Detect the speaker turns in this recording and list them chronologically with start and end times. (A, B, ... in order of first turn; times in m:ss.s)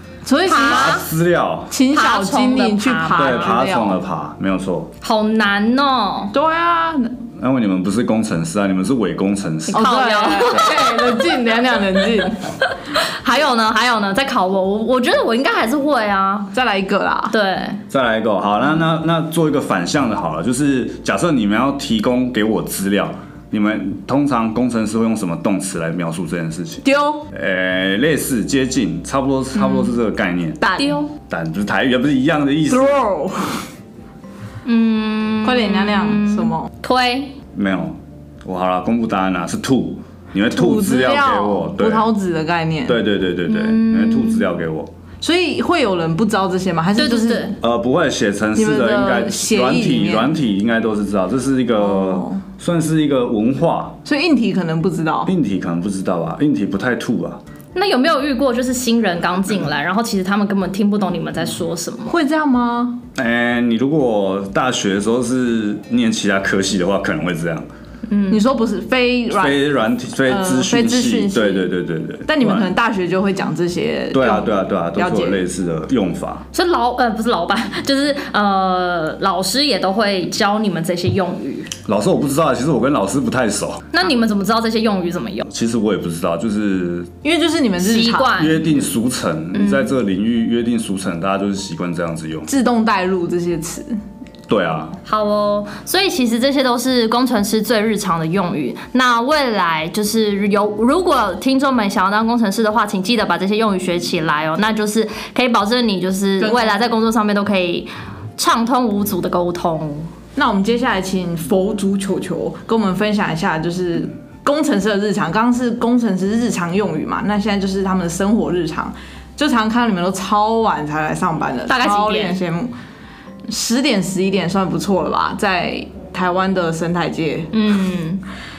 0:00.2-0:01.0 A
0:00.4-0:01.0 B
0:00.6-0:01.7 C
0:01.7-0:04.0 A
0:01.9-0:03.5 B
0:03.2-0:04.9 C
0:05.0-0:06.3 B
0:06.3-0:07.1 A
0:07.4-0:09.8 C
0:09.7-0:11.1 B
0:09.7-0:12.4 A
0:12.9-0:16.5 B
0:16.5-0:17.3 A
0:17.3-0:17.8 B
0:17.9-0:30.6 C
0:26.8-0:27.2 A
0:29.6-0:30.0 A
0:30.6-0:31.0 A
0:30.8-0:31.1 B
0:31.3-0:33.0 C
0:32.7-0:33.6 A
0:34.6-0:37.3 B
0:35.4-0:36.7 A
0:37.5-0:42.0 C
0:40.5-0:43.0 A
0:42.8-0:44.9 C
0:43.5-0:44.5 B
0:45.2-0:47.6 A
0:47.0-0:47.5 B
0:47.6-0:54.0 C
0:48.6-0:50.3 A
0:51.8-0:52.4 A
0:54.0-0:55.3 A
0:55.2-0:57.4 C
0:57.7-1:02.2 B
1:02.1-1:03.0 A
1:03.1-1:07.6 C
1:08.1-1:08.4 B
1:08.3-1:09.6 A
1:09.3-1:12.7 C
1:10.2-1:11.7 A
1:12.3-1:15.5 A
1:14.1-1:16.4 C
1:16.5-1:21.7 B
1:21.8-1:23.9 C
1:23.9-1:25.5 B
1:25.5-1:27.1 C
1:27.2-1:28.4 A
1:27.8-1:28.7 B
1:28.4-1:32.5 C
1:29.5-1:29.9 B
1:32.5-1:33.9 A
1:34.5-1:34.9 C
1:35.0-1:50.1 B
1:46.4-1:46.8 A
1:50.4-2:02.7 A
2:01.7-2:02.4 B
2:03.5-2:07.5 A
2:07.5-2:08.2 B